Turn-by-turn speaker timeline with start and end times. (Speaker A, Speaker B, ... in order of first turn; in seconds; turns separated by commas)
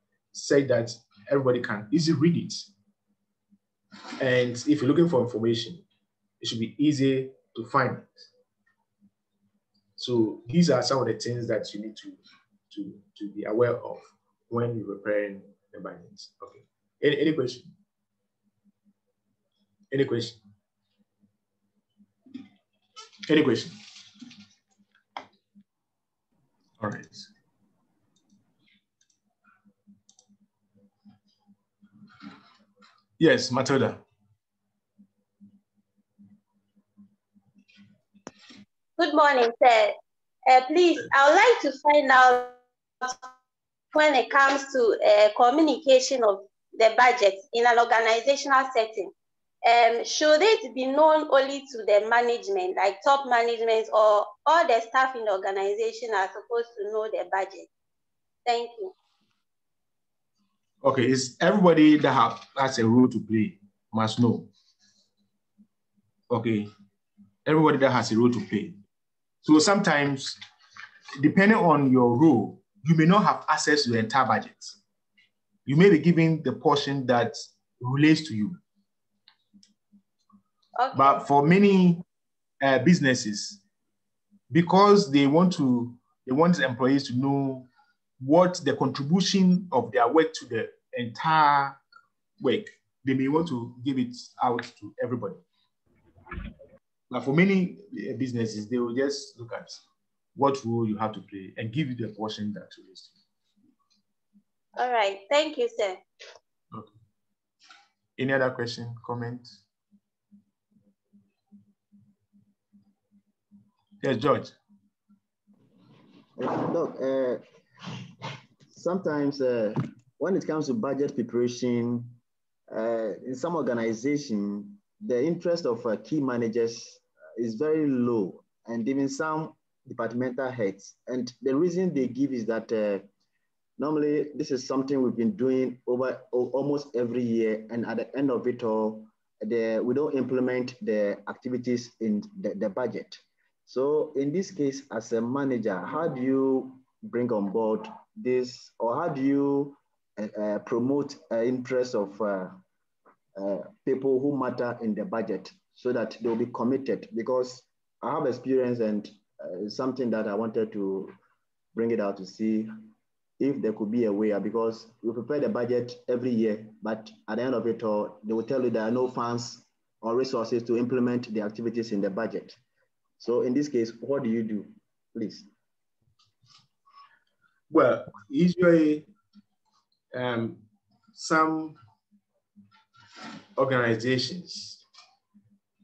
Speaker A: 0.3-2.7, Speaker A: 4.2-5.8, Speaker A: 6.4-8.3, Speaker A: 10.0-17.7, Speaker A: 19.9-20.4, Speaker A: 23.2-23.8, Speaker A: 26.8-27.3, Speaker A: 33.2-34.0, Speaker B: 39.0-43.2, Speaker B: 43.9-49.1, Speaker B: 49.6-57.7, Speaker B: 58.5-58.9, Speaker A: 60.8-64.5, Speaker A: 66.3-66.7, Speaker A: 67.5-68.8, Speaker A: 69.4-70.4, Speaker A: 71.2-74.8, Speaker A: 75.7-78.6, Speaker B: 80.8-81.1, Speaker A: 80.9-82.0, Speaker A: 82.6-83.6, Speaker A: 84.5-87.7, Speaker A: 88.2-91.8, Speaker A: 92.4-95.4, Speaker A: 97.1-99.8, Speaker A: 100.3-103.2, Speaker B: 104.8-106.0, Speaker A: 108.2-109.5, Speaker A: 114.0-114.5, Speaker C: 116.3-117.4, Speaker C: 118.7-122.2, Speaker C: 122.7-133.0, Speaker C: 133.8-152.6, Speaker C: 153.3-161.1, Speaker C: 161.7-162.7, Speaker C: 163.4-172.6, Speaker C: 173.2-175.5, Speaker A: 177.7-179.1, Speaker A: 180.1-180.6, Speaker A: 181.1-181.8, Speaker A: 183.6-184.8